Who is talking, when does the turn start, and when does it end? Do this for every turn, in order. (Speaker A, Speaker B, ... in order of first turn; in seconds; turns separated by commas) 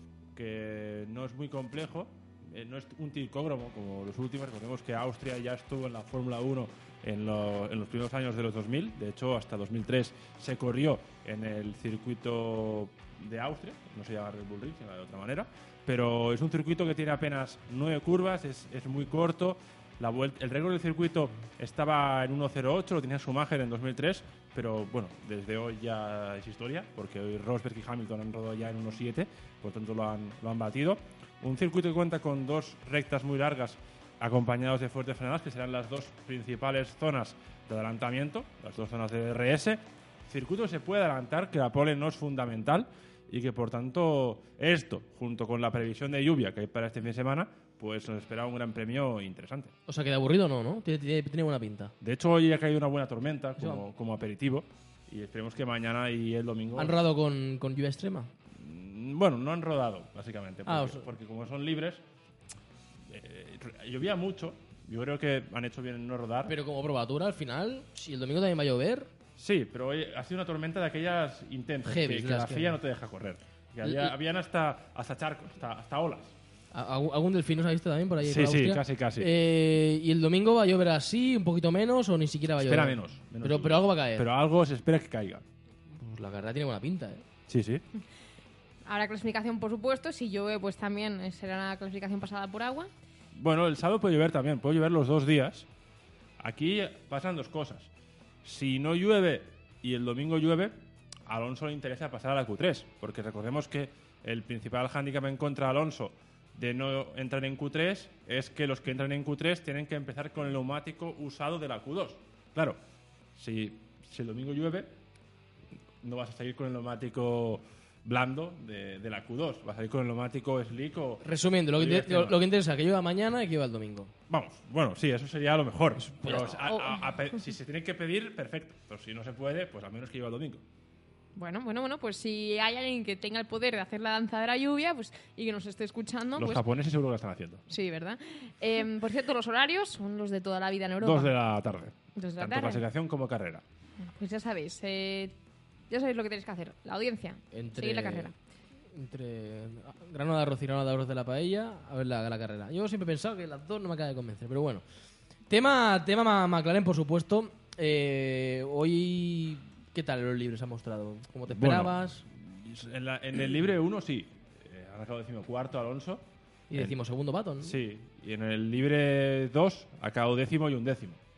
Speaker A: 0.3-49.7, Speaker B: 49.9-51.9, Speaker A: 52.0-57.0, Speaker B: 53.6-53.8, Speaker B: 56.8-58.3, Speaker A: 58.5-62.0, Speaker B: 60.6-61.1, Speaker A: 63.0-66.5, Speaker B: 66.5-69.1, Speaker A: 69.4-76.3, Speaker B: 71.8-72.8, Speaker B: 73.8-74.1, Speaker B: 76.7-84.3, Speaker A: 78.2-79.3, Speaker A: 82.5-85.4, Speaker B: 85.9-87.2, Speaker A: 87.5-87.8, Speaker C: 88.8-92.9, Speaker A: 93.3-95.7, Speaker A: 96.4-97.9, Speaker A: 98.4-112.8, Speaker A: 113.3-114.9, Speaker A: 116.0-122.4, Speaker B: 121.2-124.1, Speaker A: 124.3-130.6, Speaker B: 126.2-126.6, Speaker C: 131.3-136.6, Speaker A: 136.3-137.6, Speaker C: 137.7-141.3, Speaker A: 141.0-143.6, Speaker C: 142.2-142.8, Speaker C: 144.0-145.3, Speaker C: 145.9-148.3, Speaker B: 147.5-148.3, Speaker B: 148.9-154.8, Speaker B: 155.5-162.2, Speaker A: 161.5-167.0, Speaker B: 166.7-167.8, Speaker A: 167.6-171.2